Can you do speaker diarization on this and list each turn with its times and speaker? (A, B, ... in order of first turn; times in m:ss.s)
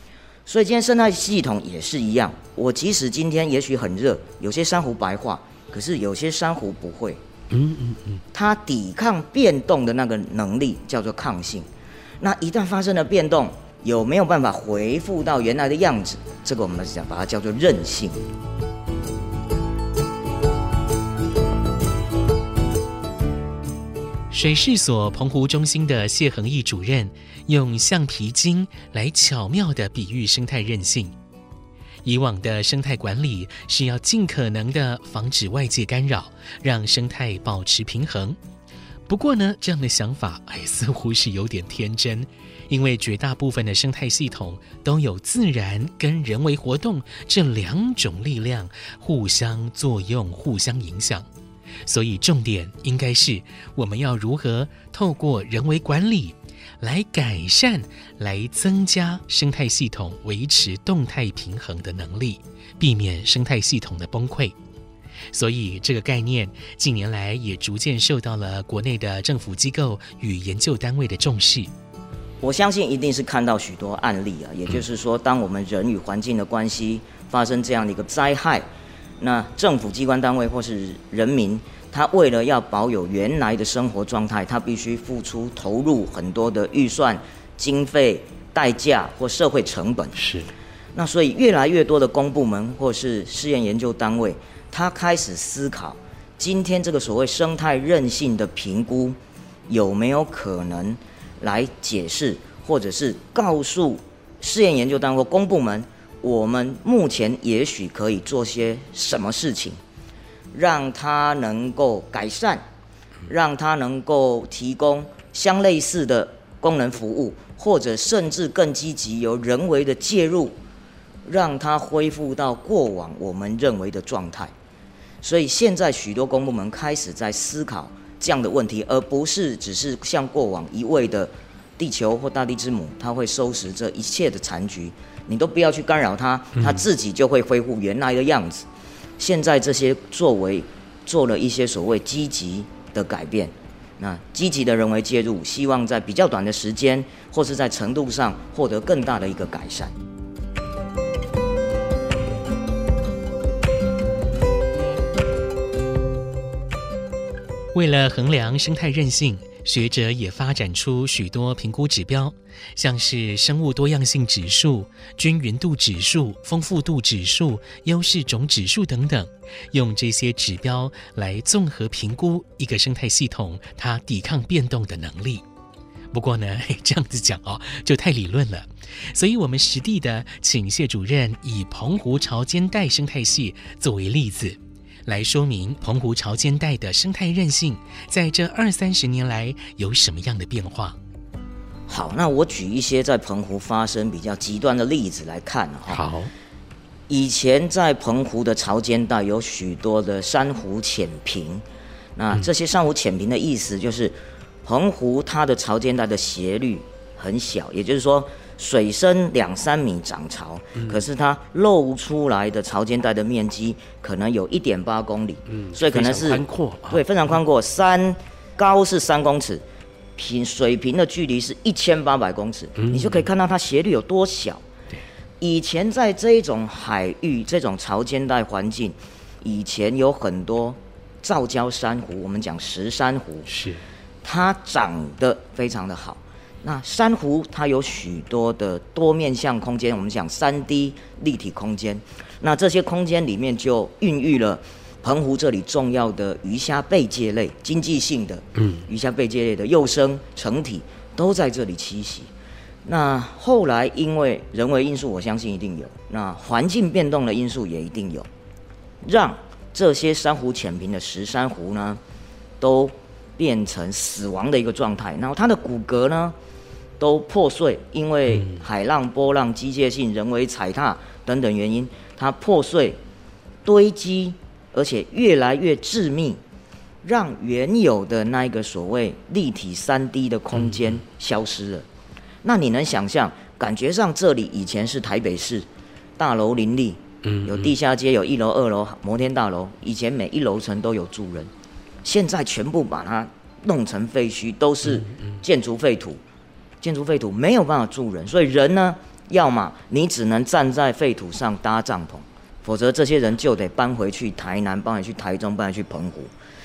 0:00.4-0:07.2 A
0:07.5-0:08.2 B
0:08.3-0:11.7 A
0:12.2-0:18.2 A
0:24.3-0:31.1 B
0:32.0-0:38.4 B
0:39.1-0:51.3 B
0:51.8-1:04.5 B
1:05.3-1:11.7 B
1:12.4-1:18.6 A
1:19.2-1:30.2 A
1:30.2-1:30.5 B
1:30.9-1:39.2 A
1:39.7-1:49.8 A
1:50.5-1:52.6 A
1:53.3-2:00.6 A
2:01.2-2:04.5 A
2:05.2-2:18.7 A
2:19.2-2:29.9 A
2:37.7-2:55.4 B
2:56.1-3:11.0 B
3:11.9-3:16.0 A
3:15.9-3:16.3 B
3:17.1-3:21.6 A
3:22.2-3:39.6 A
3:35.8-3:37.0 B
3:40.2-3:44.6 A
3:45.4-3:53.5 A
3:53.5-3:53.8 B
3:54.2-4:12.3 A
4:12.8-4:18.3 A
4:19.0-4:22.0 A
4:22.6-4:26.4 A
4:27.0-4:33.0 A
4:33.6-4:36.4 A
4:37.0-4:41.8 A
4:42.4-4:45.6 A
4:46.2-4:51.5 A
4:52.0-4:56.2 A
4:56.8-5:06.3 A